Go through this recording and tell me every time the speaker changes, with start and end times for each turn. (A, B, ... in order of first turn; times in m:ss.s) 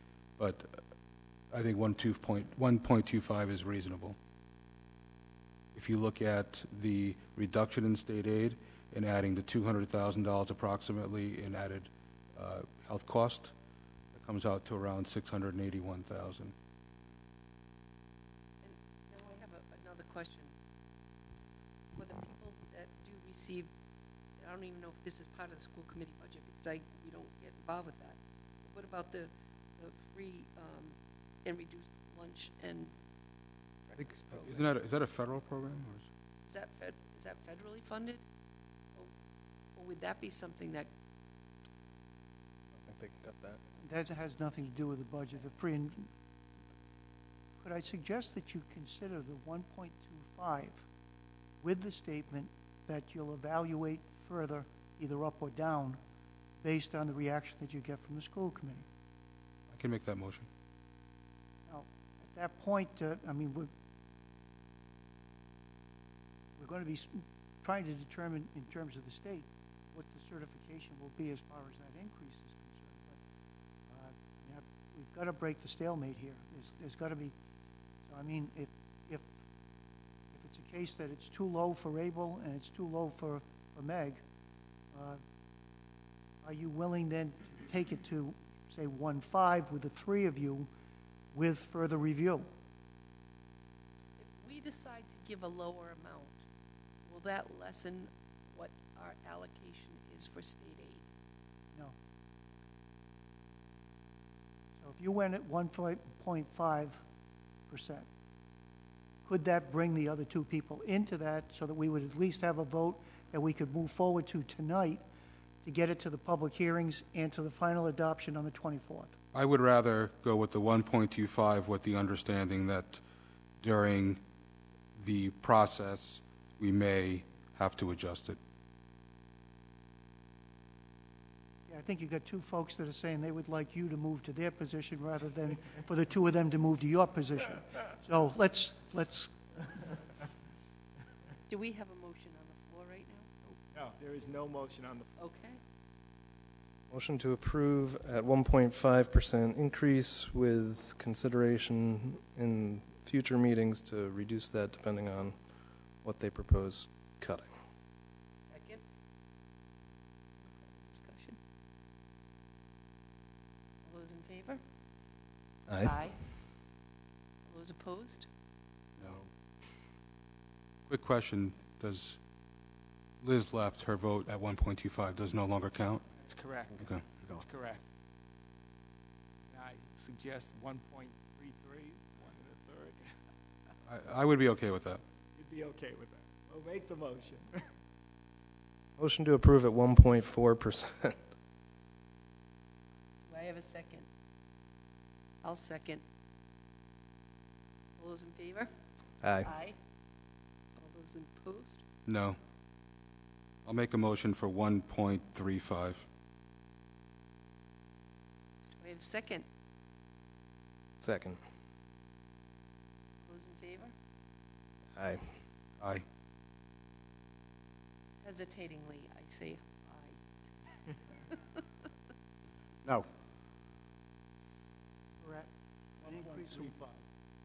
0:00.4-0:00.8 A
0:01.5-0:04.2 A
0:05.7-0:13.5 A
0:14.1-0:16.5 A
0:18.6-0:20.5 B
0:21.9-0:23.7 B
0:24.4-0:32.9 B
0:33.8-0:34.6 B
0:34.3-0:36.1 A
0:36.4-0:38.2 B
0:39.8-0:40.9 B
0:42.7-0:43.6 C
0:43.8-0:46.1 D
0:47.6-0:50.8 D
0:51.6-0:56.0 D
0:56.6-0:58.8 D
0:59.7-1:00.5 A
1:01.7-1:03.7 D
1:06.6-1:13.2 D
1:13.9-1:17.3 D
1:18.0-1:19.3 D
1:20.3-1:24.2 D
1:24.9-1:25.2 D
1:26.4-1:30.7 D
1:31.3-1:32.5 D
1:34.2-1:36.4 B
1:37.0-1:41.1 B
1:44.8-1:47.0 D
1:47.7-1:48.0 D
1:49.2-1:55.0 D
1:55.6-1:59.1 D
1:59.3-2:03.0 A
2:03.6-2:04.2 A
2:05.0-2:08.4 A
2:11.7-2:19.8 D
2:21.5-2:23.3 B
2:23.7-2:25.2 E
2:25.2-2:25.6 B
2:26.9-2:35.4 C
2:36.0-2:37.5 C
2:38.5-2:38.8 B
2:40.4-2:41.4 B
2:43.8-2:44.6 B
2:45.7-2:45.9 C
2:45.8-2:46.2 B
2:47.4-2:48.3 B
2:49.0-2:49.3 A
2:50.9-2:52.2 A
2:53.2-2:56.0 A
2:56.2-2:57.8 E
2:59.5-3:03.1 E
3:03.8-3:05.0 A
3:05.4-3:07.6 E
3:09.0-3:11.2 C
3:13.2-3:14.0 B
3:15.4-3:16.0 B
3:18.0-3:18.7 B
3:19.2-3:19.5 C
3:19.4-3:19.8 B
3:20.8-3:21.8 B
3:22.0-3:22.4 A
3:23.6-3:26.0 A
3:28.8-3:29.4 B
3:31.0-3:31.4 C
3:33.2-3:33.9 B
3:34.9-3:35.3 C
3:38.2-3:40.2 B
3:45.2-3:45.5 D
3:46.0-3:46.8 D
3:46.1-3:47.0 E